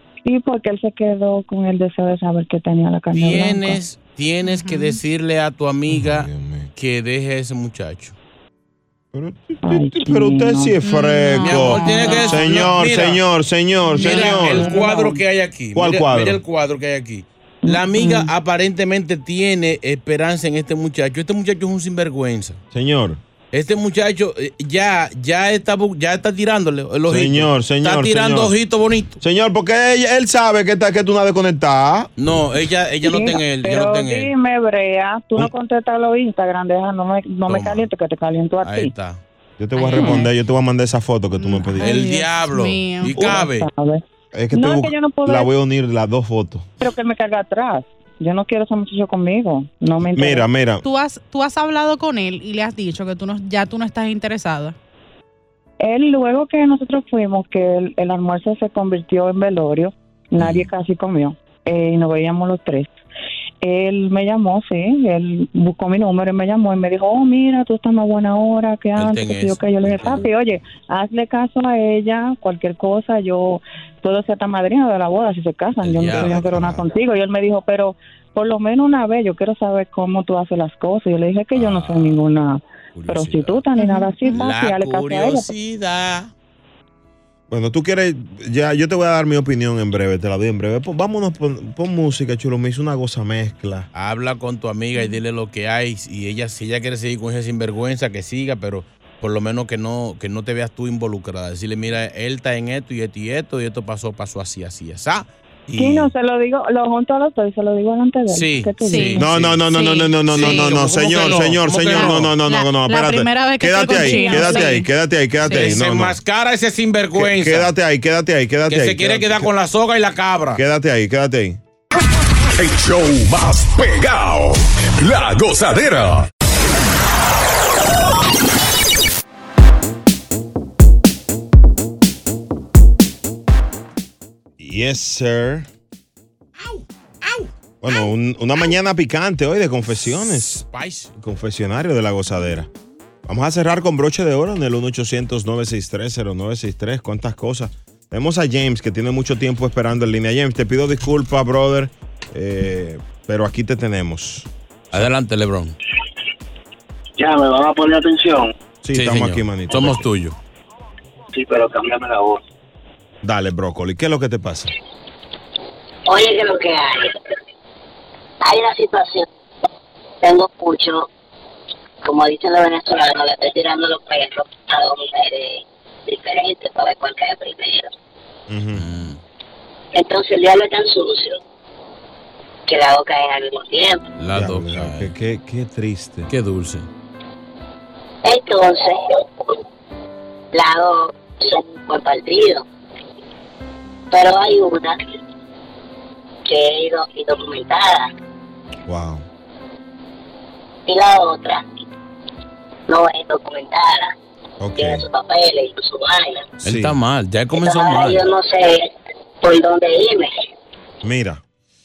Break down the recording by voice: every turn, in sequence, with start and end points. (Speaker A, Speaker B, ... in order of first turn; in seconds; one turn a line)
Speaker A: 0.2-3.8
Speaker B: 3.1-8.2
Speaker C: 4.4-5.0
Speaker D: 5.9-6.7
Speaker D: 9.1-14.8
Speaker A: 9.6-10.7
Speaker C: 10.8-12.7
Speaker B: 11.4-13.2
Speaker C: 13.9-15.0
Speaker B: 14.0-22.6
Speaker A: 14.6-15.2
Speaker D: 15.8-16.4
Speaker A: 17.6-18.3
Speaker D: 22.7-23.2
Speaker B: 23.5-29.2
Speaker D: 27.1-28.5
Speaker D: 29.2-32.5
Speaker B: 32.2-34.3
Speaker A: 33.0-38.9
Speaker B: 37.5-37.9
Speaker B: 38.6-39.2
Speaker D: 39.6-42.0
Speaker C: 39.8-40.3
Speaker C: 41.4-43.4
Speaker B: 41.8-43.7
Speaker D: 43.1-43.5
Speaker A: 43.3-45.5
Speaker D: 44.3-46.7
Speaker A: 46.8-50.5
Speaker D: 50.0-50.8
Speaker C: 50.8-54.8
Speaker A: 55.8-62.9
Speaker B: 60.4-60.7
Speaker A: 63.6-85.5
Speaker B: 69.0-70.3
Speaker B: 75.8-76.9
Speaker B: 81.5-82.3
Speaker B: 83.0-83.7
Speaker C: 83.8-84.5
Speaker B: 84.3-86.3
Speaker D: 87.5-93.9
Speaker B: 93.9-106.1
Speaker A: 105.8-109.2
Speaker B: 108.3-112.4
Speaker C: 108.8-111.3
Speaker D: 109.2-116.2
Speaker C: 111.9-114.9
Speaker A: 114.0-114.6
Speaker C: 115.5-115.7
Speaker B: 115.5-117.7
Speaker D: 117.2-119.5
Speaker B: 118.7-120.6
Speaker D: 120.5-121.6
Speaker E: 122.6-126.3
Speaker D: 134.6-135.7
Speaker B: 136.6-137.5
Speaker D: 137.8-142.7
Speaker B: 140.1-141.1
Speaker D: 143.2-154.5
Speaker B: 154.9-155.8
Speaker F: 157.2-158.4
Speaker D: 158.8-160.1
Speaker B: 158.9-160.3
Speaker F: 161.5-162.3
Speaker D: 163.2-164.7
Speaker G: 166.1-167.2
Speaker G: 168.4-169.3
Speaker G: 170.2-171.1
Speaker G: 172.0-177.9
Speaker D: 178.5-178.9
Speaker B: 178.8-179.2
Speaker G: 179.9-181.4
Speaker G: 182.7-184.0
Speaker B: 184.2-185.1
Speaker D: 184.3-186.3
Speaker B: 186.3-186.9
Speaker G: 188.2-189.5
Speaker G: 190.5-192.6
Speaker G: 194.1-195.0
Speaker G: 196.4-198.1
Speaker D: 198.9-199.2
Speaker G: 200.9-201.7
Speaker G: 202.9-204.1
Speaker D: 204.6-205.1
Speaker G: 204.8-206.5
Speaker B: 206.6-208.2
Speaker D: 206.6-207.0
Speaker G: 207.5-208.9
Speaker G: 209.4-210.3
Speaker D: 211.0-211.4